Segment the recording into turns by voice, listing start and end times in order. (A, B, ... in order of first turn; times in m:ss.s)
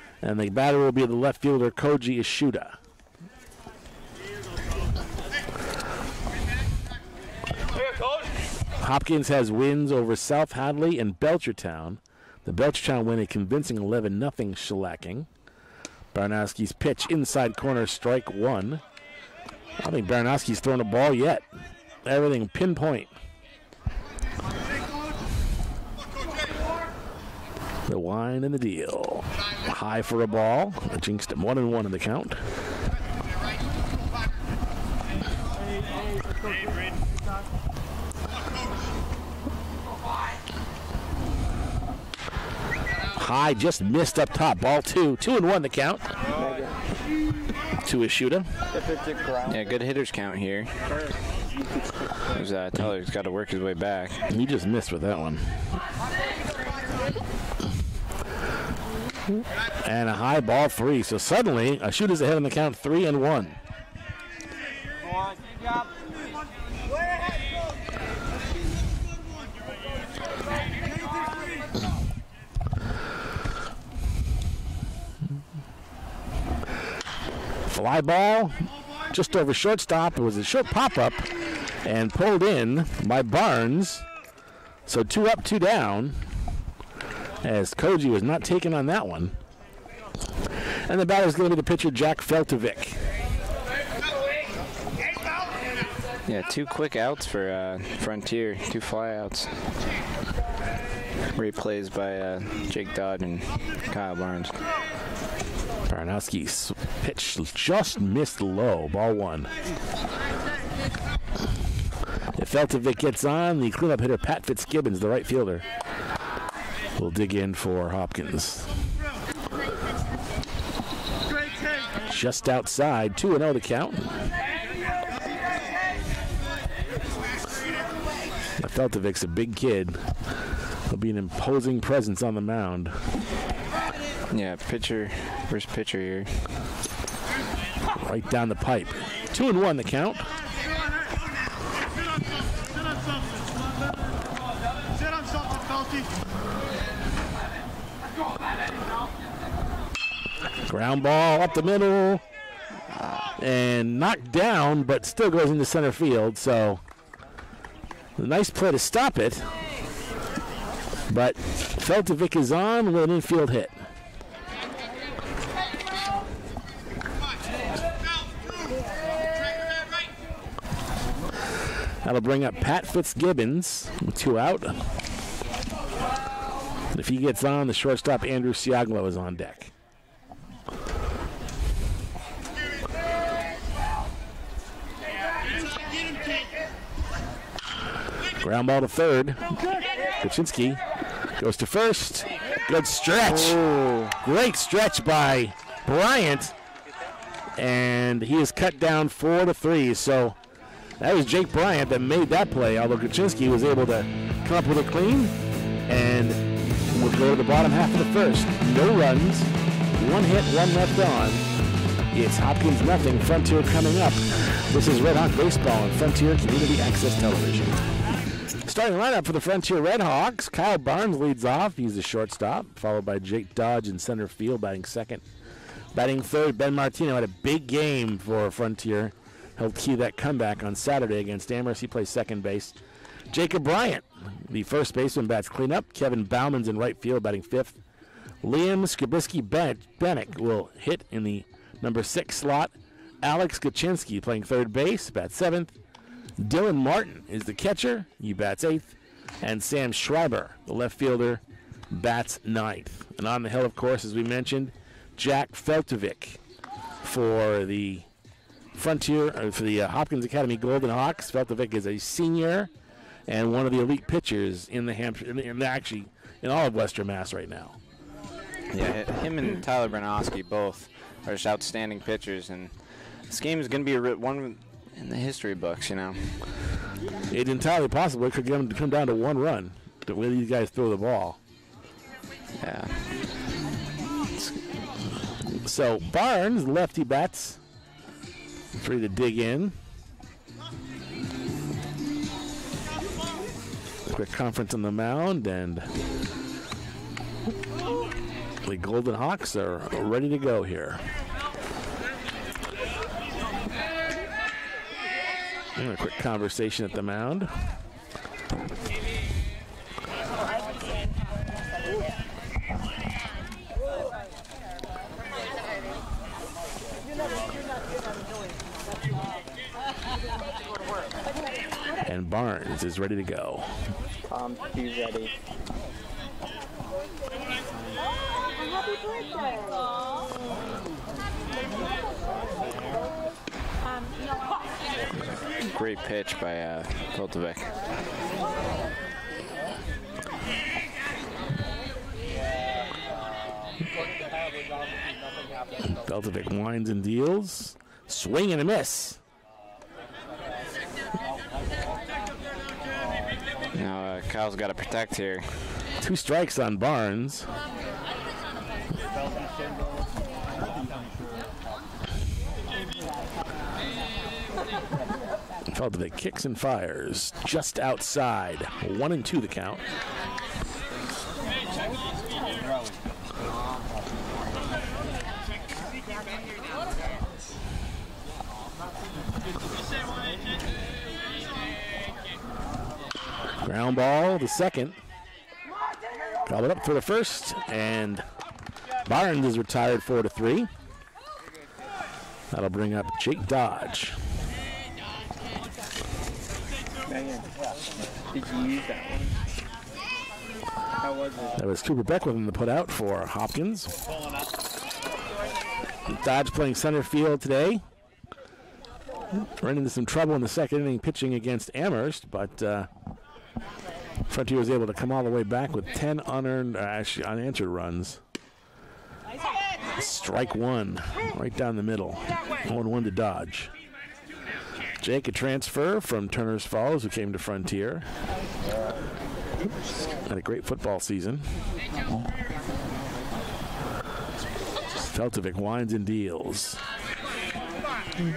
0:00.2-0:02.8 A
0:08.8-0:15.3 A
0:16.1-0:18.8 A
0:19.8-0:21.4 A
0:22.0-0:23.1 A
0:27.9-0:32.4 A
0:43.2-0:46.1 A
0:46.4-0:46.8 B
0:47.8-0:48.5 A
0:48.7-0:49.6 B
0:49.5-0:50.8 C
0:52.3-0:54.2 C
0:54.3-0:55.6 A
0:59.8-1:03.6 A
1:17.7-1:21.3 A
1:21.8-1:24.1 A
1:24.9-1:26.2 A
1:27.4-1:29.3 A
1:30.9-1:33.0 A
1:36.3-1:39.5 C
1:41.3-1:44.6 C
1:45.9-1:49.5 A
1:52.4-1:55.7 A
1:57.0-1:58.7 A
2:02.1-2:04.2 A
2:08.6-2:10.1 A
2:10.9-2:13.0 A
2:14.3-2:16.5 C
2:17.9-2:20.3 A
2:30.6-2:32.2 A
2:32.9-2:33.3 C
2:33.4-2:36.8 A
2:38.2-2:39.5 A
2:41.1-2:43.8 A
2:52.0-2:54.8 A
2:56.9-2:59.7 A
3:08.4-3:09.4 A
3:10.2-3:10.8 A
3:11.4-3:16.6 A
3:17.6-3:20.4 A
3:21.0-3:25.3 A
3:25.9-3:31.4 A
3:32.1-3:37.8 A
3:38.6-3:45.2 A
3:45.9-3:52.8 A
3:53.3-3:57.8 A
3:58.4-4:05.7 A
4:06.4-4:16.4 A
4:17.0-4:18.1 A
4:18.8-4:22.7 A
4:23.3-4:27.8 A
4:28.7-4:32.7 C
4:33.3-4:36.5 C
4:37.3-4:41.4 A
4:42.6-4:43.0 C
4:44.3-4:44.8 C
4:45.6-4:47.6 A
4:48.8-4:49.8 A
4:54.1-4:55.9 A
4:58.6-5:01.0 A
5:05.8-5:07.5 A
5:22.0-5:23.7 A
5:24.3-5:25.4 B
5:35.6-5:37.7 C
5:45.8-5:49.2 A
5:53.7-5:55.5 C
5:56.0-5:57.5 A
6:05.7-6:09.8 A
6:23.6-6:25.0 A
6:26.5-6:28.2 A
6:29.1-6:30.7 A
6:32.5-6:34.2 A
6:37.1-6:37.6 B
6:38.3-6:39.4 B
6:41.0-6:41.6 B
6:41.6-6:44.0 A
6:46.1-6:47.8 A
6:49.6-6:52.9 A
6:54.3-6:58.2 A
7:00.0-7:03.7 A
7:05.0-7:08.1 A
7:10.2-7:11.5 A
7:15.1-7:16.8 A